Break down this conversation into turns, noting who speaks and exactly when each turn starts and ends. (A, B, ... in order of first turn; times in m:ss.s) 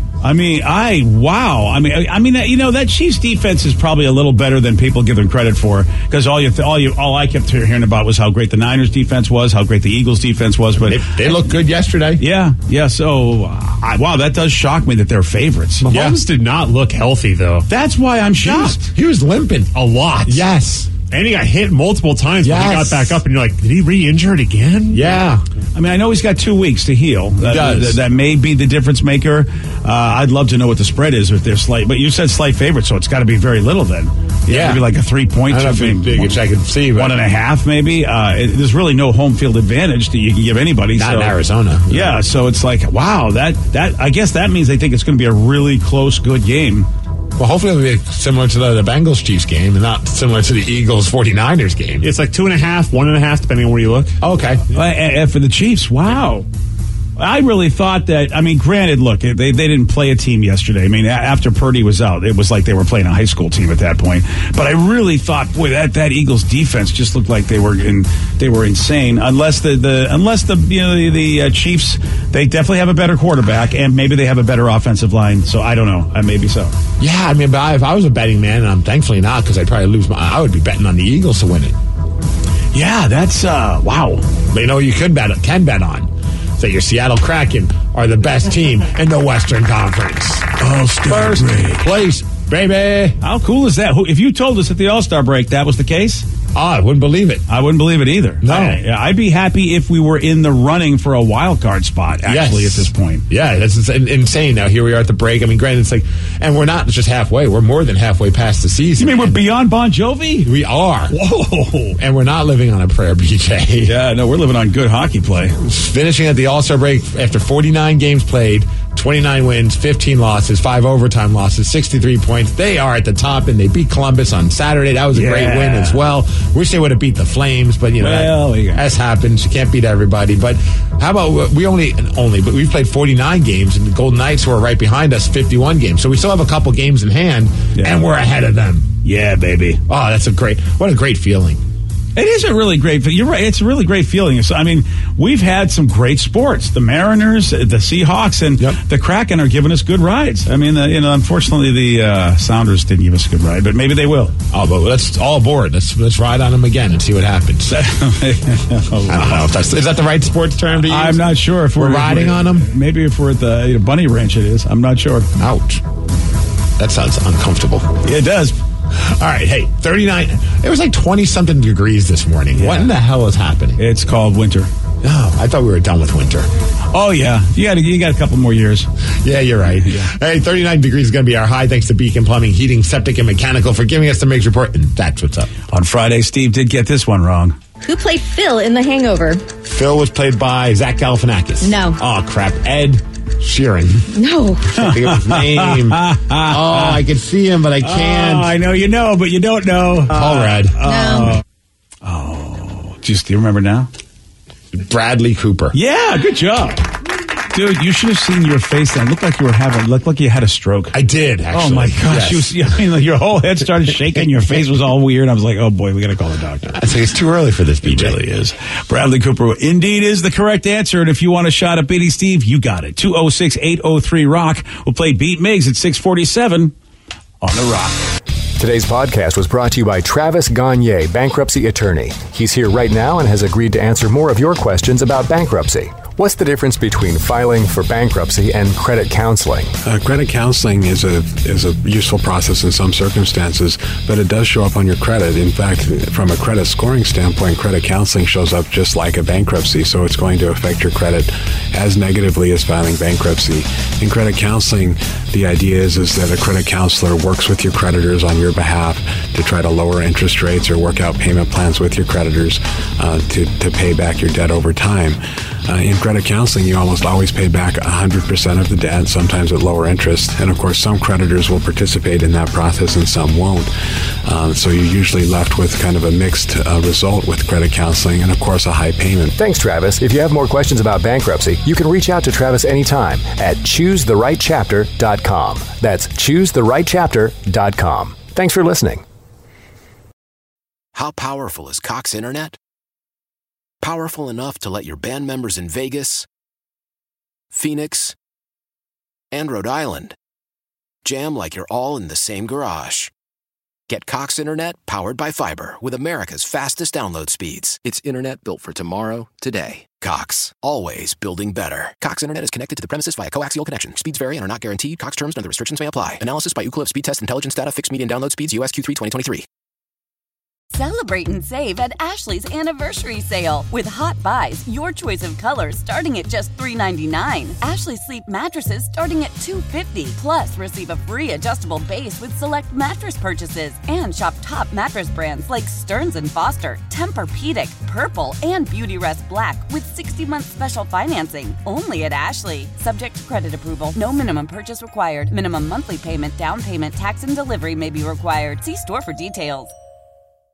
0:00.2-0:11.5 A
0:10.8-0:12.2 B
0:12.2-0:15.9 A
0:15.8-0:17.7 C
0:15.9-0:16.2 B
0:17.7-0:18.9 A
0:18.4-0:19.7 B
0:19.7-0:20.5 C
0:20.3-0:20.9 B
0:21.0-0:25.2 C
0:22.4-0:23.2 B
0:24.9-0:25.4 B
0:25.8-0:36.4 A
0:27.4-0:28.0 B
0:34.5-0:34.8 B
0:35.5-0:37.2 B
0:36.9-0:41.4 A
0:41.0-0:42.2 B
0:41.9-0:46.9 A
0:47.4-0:52.1 B
0:52.0-0:54.2 C
0:54.2-0:54.6 B
0:54.7-0:56.5 A
0:57.2-1:16.7 A
1:17.0-1:21.8 B
1:22.7-1:24.3 A
1:24.5-1:33.2 B
1:30.6-1:31.9 A
1:33.2-1:36.3 A
1:36.6-1:37.4 B
1:37.5-1:43.2 A
1:38.4-1:38.8 B
1:42.2-1:49.5 B
1:49.0-1:50.5 A
1:50.4-1:51.2 B
1:51.1-1:52.0 A
1:52.0-1:54.0 B
1:53.8-1:55.6 A
1:55.6-2:18.9 B
2:05.1-2:06.0 A
2:08.0-2:08.8 A
2:17.8-2:18.0 A
2:19.0-2:19.8 A
2:19.9-2:21.6 B
2:22.2-2:34.4 A
2:34.5-2:37.9 B
2:37.7-2:39.4 A
2:39.1-2:42.7 B
2:40.8-2:45.3 A
2:45.4-2:45.8 B
2:46.8-2:47.9 B
2:48.0-2:48.6 A
2:48.9-2:53.8 B
2:52.5-2:52.9 A
2:53.8-2:54.7 A
2:55.0-2:56.5 B
2:56.9-2:58.9 A
2:59.2-3:05.5 B
2:59.8-3:00.1 A
3:05.7-3:07.6 A
3:07.8-3:09.4 D
3:09.6-3:14.1 B
3:11.6-3:12.0 D
3:14.1-3:14.8 D
3:14.7-3:18.5 B
3:14.8-3:17.0 A
3:17.8-3:21.4 A
3:20.1-3:20.8 B
3:20.8-3:21.4 D
3:22.0-3:23.9 A
3:24.7-3:25.8 B
3:25.7-3:26.9 A
3:27.5-3:31.0 A
3:30.9-3:32.7 B
3:31.5-3:36.8 A
3:36.7-3:38.2 B
3:37.8-3:46.7 A
3:47.4-3:48.0 A
3:48.6-3:59.7 E
3:59.8-4:33.7 F
4:34.2-4:39.3 F
4:39.4-4:49.0 E
4:50.9-4:52.6 G
4:53.8-4:56.3 G
4:57.5-4:58.2 G
4:59.3-5:00.2 G
5:01.0-5:03.1 G
5:03.9-5:19.5 G
5:20.7-5:49.7 H